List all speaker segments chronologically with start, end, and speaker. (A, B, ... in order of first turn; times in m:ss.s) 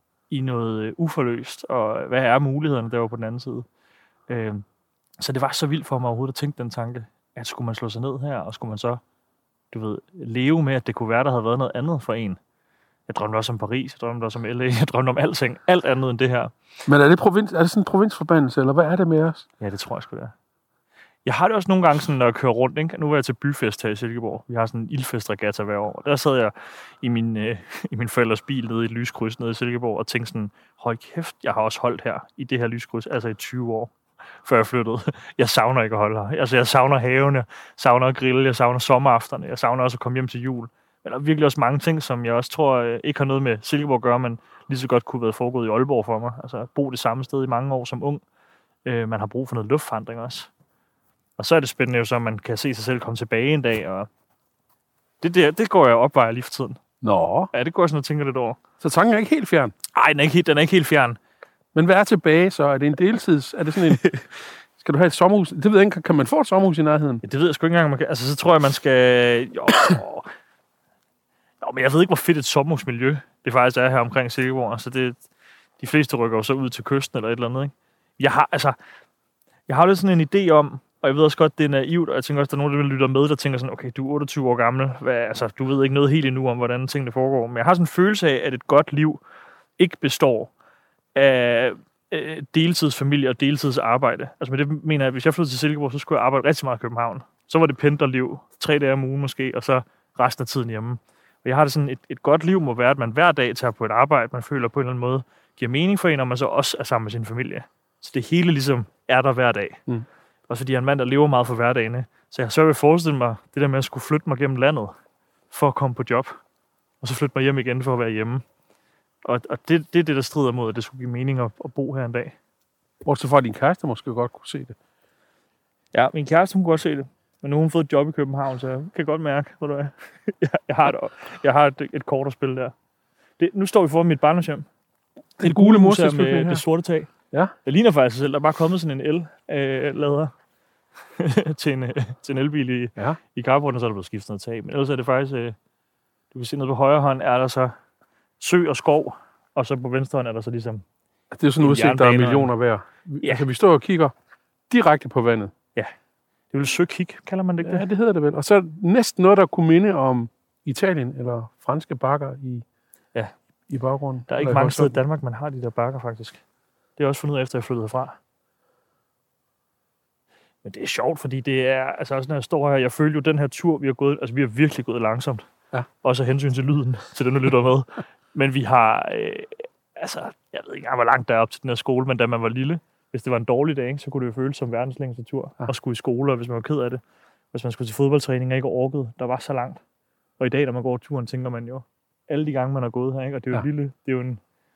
0:00.3-0:03.6 A
0:04.3-0:04.6 A
0:05.2-0:09.0 A
0:09.7-0:12.4 A
0:13.1-0:16.5 A
0:16.9-0:19.4 B
0:19.6-0:20.3 A
0:21.2-0:33.9 A
0:34.4-0:48.2 A
0:48.9-0:50.5 A
0:51.4-0:54.1 A
0:55.2-0:56.8 A
0:57.0-0:57.5 B
0:57.5-0:58.6 A
0:58.8-0:59.7 B
0:59.9-1:01.2 A
1:01.7-1:04.2 B
1:04.8-1:07.2 B
1:07.2-1:10.3 A
1:11.6-1:15.2 A
1:15.8-1:18.8 A
1:19.7-1:29.2 A
1:29.8-1:30.5 A
1:31.2-1:49.8 A
1:50.5-1:54.9 A
1:55.5-1:56.4 A
1:57.0-1:58.4 A
1:59.2-2:02.4 A
2:03.0-2:04.8 B
2:05.9-2:12.7 A
2:13.4-2:14.6 A
2:15.4-2:17.1 A
2:15.4-2:16.6 B
2:17.6-2:20.3 A
2:21.2-2:25.6 A
2:26.3-2:27.7 A
2:28.4-2:30.8 A
2:31.3-2:34.1 B
2:31.6-2:32.5 A
2:34.7-2:35.5 B
2:36.5-2:37.9 A
2:37.6-2:42.6 B
2:43.7-2:45.0 B
2:44.3-2:46.4 A
2:47.0-2:48.2 A
2:50.6-2:55.4 A
2:56.0-3:07.0 A
3:07.5-3:09.8 A
3:10.4-3:14.4 A